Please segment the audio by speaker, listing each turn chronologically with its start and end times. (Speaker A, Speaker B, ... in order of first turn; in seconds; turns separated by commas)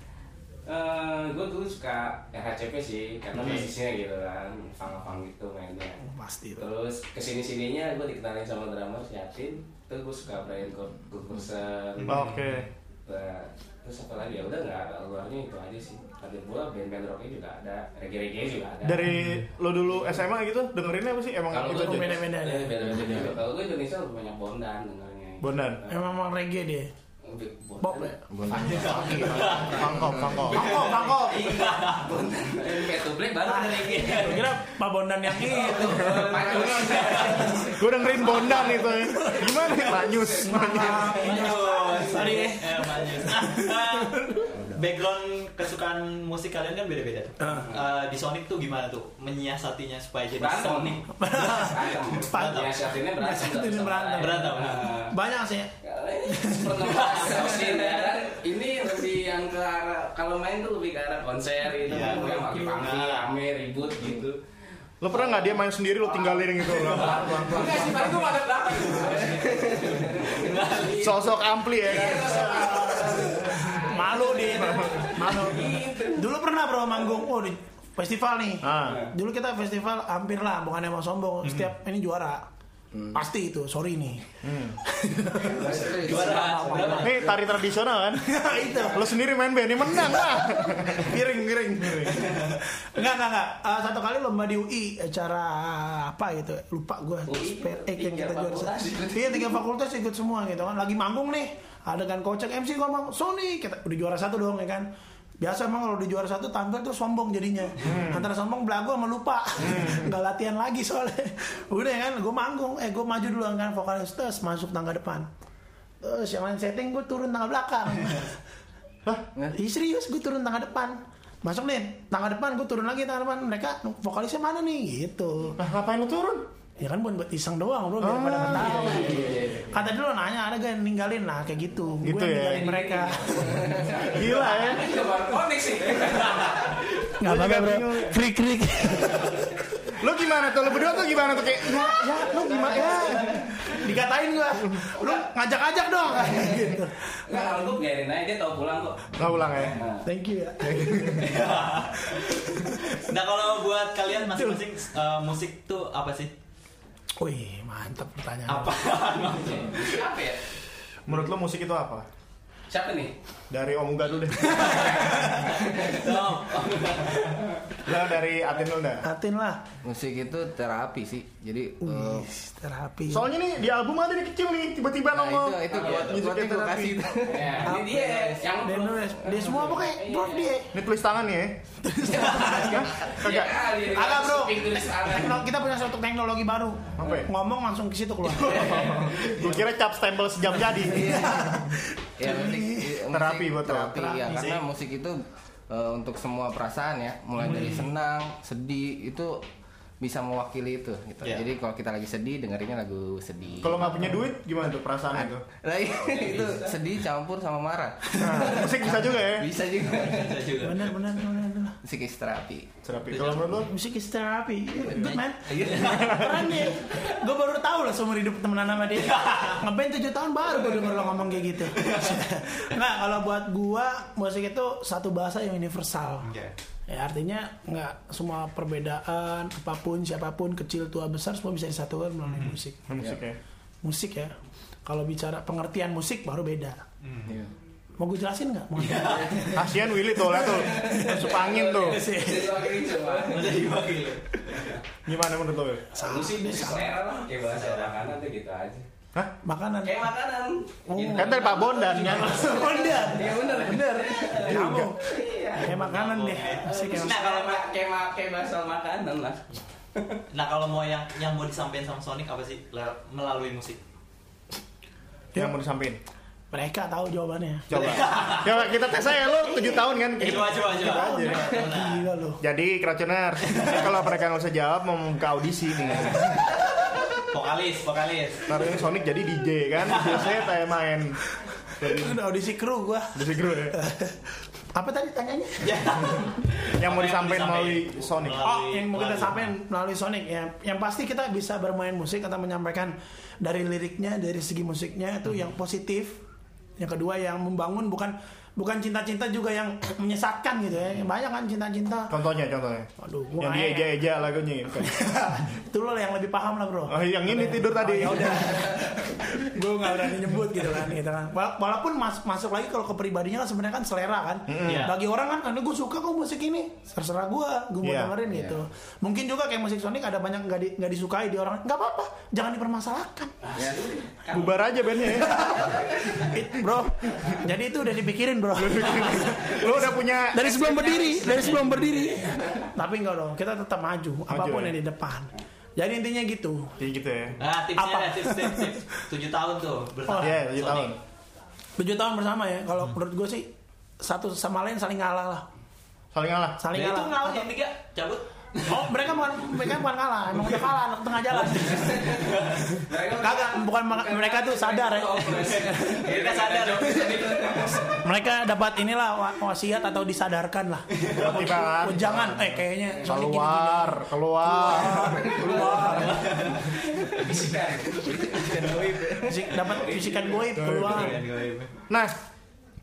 Speaker A: 0.7-6.0, Speaker B: 3.3-3.7, Speaker C: 6.0-6.7, Speaker A: 6.6-12.3, Speaker B: 12.1-12.7, Speaker A: 13.1-19.1, Speaker B: 18.8-22.2, Speaker A: 21.5-26.1, Speaker C: 21.7-22.8, Speaker D: 22.8-23.4, Speaker B: 25.4-25.8, Speaker C: 25.9-26.9, Speaker A: 27.2-28.1, Speaker C: 27.8-28.2, Speaker D: 28.3-30.5, Speaker B: 28.5-30.7, Speaker E: 28.6-29.8, Speaker C: 30.5-31.5, Speaker E: 30.6-32.1, Speaker A: 30.8-34.5, Speaker C: 33.4-36.6, Speaker E: 33.9-34.4, Speaker A: 35.4-38.7, Speaker E: 36.6-37.5, Speaker C: 37.2-37.7, Speaker B: 37.7-41.1, Speaker A: 39.8-42.5, Speaker C: 40.4-44.5, Speaker E: 41.0-51.1, Speaker C: 47.4-47.7, Speaker A: 50.4-55.1, Speaker C: 51.1-55.7, Speaker E: 52.3-52.7, Speaker E: 54.2-54.9, Speaker A: 55.8-64.4, Speaker C: 56.2-57.1, Speaker E: 56.8-58.1, Speaker E: 61.8-63.3, Speaker C: 61.9-62.8, Speaker B: 65.0-68.1, Speaker A: 65.1-76.2, Speaker D: 67.4-67.8, Speaker E: 68.7-70.9, Speaker B: 70.9-73.3, Speaker C: 73.7-82.5, Speaker B: 74.6-75.1, Speaker B: 78.6-79.0, Speaker E: 81.4-81.7, Speaker D: 82.9-83.2, Speaker C: 83.1-84.3, Speaker B: 84.4-84.8, Speaker C: 84.8-87.2, Speaker D: 85.5-87.4, Speaker A: 85.6-86.9, Speaker E: 86.0-87.2, Speaker B: 87.0-88.2, Speaker C: 88.2-89.1, Speaker B: 88.9-92.2, Speaker C: 90.0-104.9, Speaker A: 97.3-99.5, Speaker C: 105.4-115.3, Speaker B: 107.8-108.3, Speaker B: 109.6-110.1, Speaker C: 116.0-118.3, Speaker C: 119.5-125.6, Speaker B: 125.6-126.4, Speaker C: 126.8-134.1, Speaker B: 128.0-129.2, Speaker A: 128.6-129.6, Speaker B: 132.0-132.7, Speaker A: 132.5-137.1, Speaker B: 134.0-134.9, Speaker C: 137.2-139.6, Speaker B: 137.2-138.2, Speaker B: 139.9-142.4, Speaker C: 141.7-147.7, Speaker A: 145.0-145.2, Speaker A: 147.3-150.0, Speaker B: 149.2-149.8, Speaker C: 150.0-151.3, Speaker B: 150.6-151.3, Speaker E: 151.2-152.2, Speaker C: 152.0-153.0, Speaker E: 152.9-156.3, Speaker C: 154.3-154.6, Speaker C: 157.2-158.8, Speaker E: 158.5-159.9, Speaker A: 159.6-160.4, Speaker B: 161.1-162.1, Speaker A: 162.7-163.1, Speaker B: 163.5-164.9, Speaker C: 164.7-165.5, Speaker E: 164.9-167.3, Speaker A: 165.6-167.6, Speaker B: 167.8-169.0, Speaker C: 169.0-169.6, Speaker D: 169.8-172.3, Speaker C: 171.8-173.3, Speaker B: 173.1-177.3, Speaker D: 175.1-178.4, Speaker A: 175.7-176.2, Speaker A: 177.2-180.5, Speaker C: 177.6-180.7, Speaker B: 180.7-181.6, Speaker C: 181.8-183.1, Speaker A: 182.3-185.5, Speaker B: 182.5-183.6, Speaker C: 183.8-189.0, Speaker B: 187.0-187.3, Speaker B: 188.4-191.2, Speaker A: 188.5-189.3, Speaker D: 190.8-199.4, Speaker C: 191.0-193.0, Speaker B: 193.1-194.2, Speaker C: 194.0-194.5, Speaker E: 194.3-194.6, Speaker D: 200.0-204.2, Speaker B: 203.6-205.4, Speaker D: 205.1-210.4, Speaker A: 206.0-206.7, Speaker B: 208.2-209.5, Speaker E: 209.8-210.9, Speaker C: 210.6-211.8, Speaker D: 211.8-212.7, Speaker B: 212.8-213.7, Speaker C: 213.6-226.3, Speaker E: 214.9-216.4, Speaker E: 219.1-219.6, Speaker E: 221.7-222.2, Speaker E: 226.2-226.5, Speaker C: 226.9-232.8, Speaker E: 232.3-232.6, Speaker B: 232.9-233.4, Speaker C: 233.8-234.3, Speaker C: 234.8-236.8, Speaker E: 237.0-237.3, Speaker D: 237.2-237.5, Speaker C: 238.0-242.9, Speaker E: 238.8-239.6, Speaker B: 239.5-242.0, Speaker A: 240.9-243.6, Speaker E: 243.2-244.7, Speaker B: 245.1-245.9, Speaker C: 245.9-246.9, Speaker A: 246.0-248.9, Speaker E: 247.6-247.9, Speaker C: 249.4-250.0, Speaker A: 249.8-255.7, Speaker C: 250.9-257.2, Speaker B: 251.1-252.5, Speaker B: 254.4-254.9, Speaker E: 255.6-257.6, Speaker A: 256.6-260.2, Speaker E: 260.3-263.8, Speaker B: 265.3-266.0, Speaker C: 266.5-267.7, Speaker B: 267.7-271.5, Speaker E: 267.7-268.6, Speaker E: 270.2-272.1, Speaker C: 270.3-272.4, Speaker B: 272.4-276.3, Speaker E: 273.6-273.8, Speaker E: 275.9-276.3, Speaker E: 277.2-278.6, Speaker B: 278.4-281.2, Speaker B: 281.8-282.2, Speaker C: 281.8-283.2, Speaker B: 283.1-283.8, Speaker C: 283.7-284.2, Speaker C: 284.7-285.9, Speaker E: 285.6-289.4, Speaker B: 286.8-288.4, Speaker C: 288.4-296.2, Speaker C: 296.8-302.1, Speaker B: 302.1-302.9, Speaker C: 303.0-304.0, Speaker B: 303.4-305.0, Speaker C: 304.8-323.3, Speaker B: 306.9-308.7, Speaker B: 314.5-314.9, Speaker E: 314.6-314.9, Speaker B: 317.8-318.2, Speaker D: 318.2-318.6, Speaker A: 323.5-324.4, Speaker D: 323.6-324.0, Speaker B: 324.3-325.7, Speaker C: 325.3-329.6, Speaker B: 328.5-330.5, Speaker C: 330.3-336.7, Speaker E: 330.4-332.2, Speaker B: 334.3-334.7, Speaker B: 336.8-337.4, Speaker E: 337.4-340.9, Speaker C: 337.8-338.7, Speaker C: 340.1-340.4, Speaker B: 340.2-341.0, Speaker C: 341.8-345.4, Speaker B: 346.1-346.6, Speaker C: 346.6-347.5, Speaker E: 346.7-348.9, Speaker C: 348.6-352.1, Speaker E: 351.4-352.6, Speaker A: 351.6-358.0, Speaker C: 352.7-356.0, Speaker E: 355.3-357.8, Speaker C: 358.0-360.9, Speaker E: 361.0-361.5, Speaker B: 361.1-365.4, Speaker C: 361.8-366.2, Speaker E: 365.5-366.8, Speaker A: 365.6-370.4, Speaker D: 368.1-369.2, Speaker E: 368.6-368.9, Speaker C: 369.2-371.2, Speaker B: 370.6-371.2, Speaker E: 370.8-371.7, Speaker B: 371.9-372.1